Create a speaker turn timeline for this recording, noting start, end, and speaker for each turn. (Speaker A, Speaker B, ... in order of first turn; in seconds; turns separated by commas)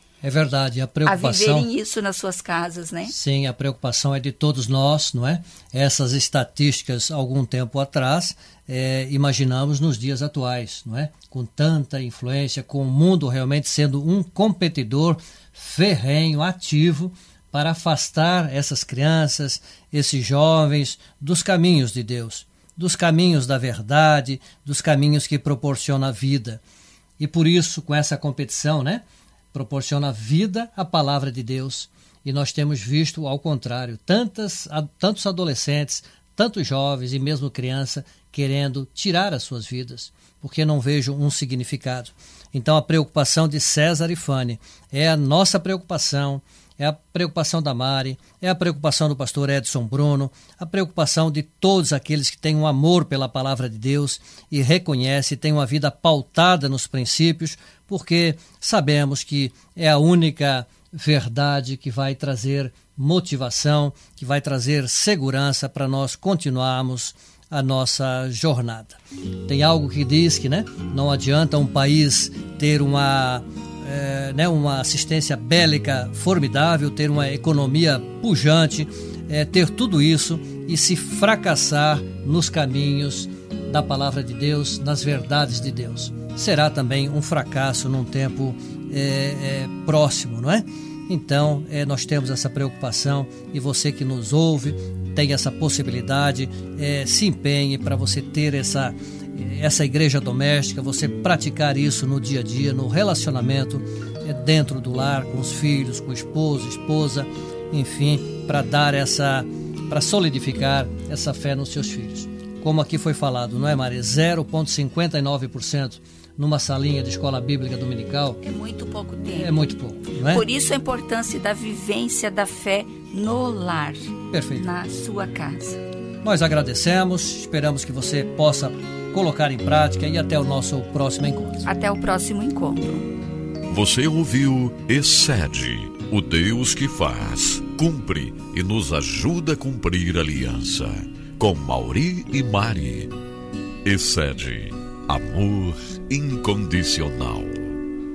Speaker A: 0.2-1.7, Speaker B: 1.0-3.1, Speaker A: 3.1-26.6, Speaker A: 27.2-118.4, Speaker B: 118.4-119.5, Speaker A: 119.3-120.4, Speaker B: 120.3-125.8, Speaker A: 124.3-124.7, Speaker A: 126.2-131.6, Speaker B: 131.6-133.1, Speaker C: 133.7-143.1, Speaker C: 143.8-147.7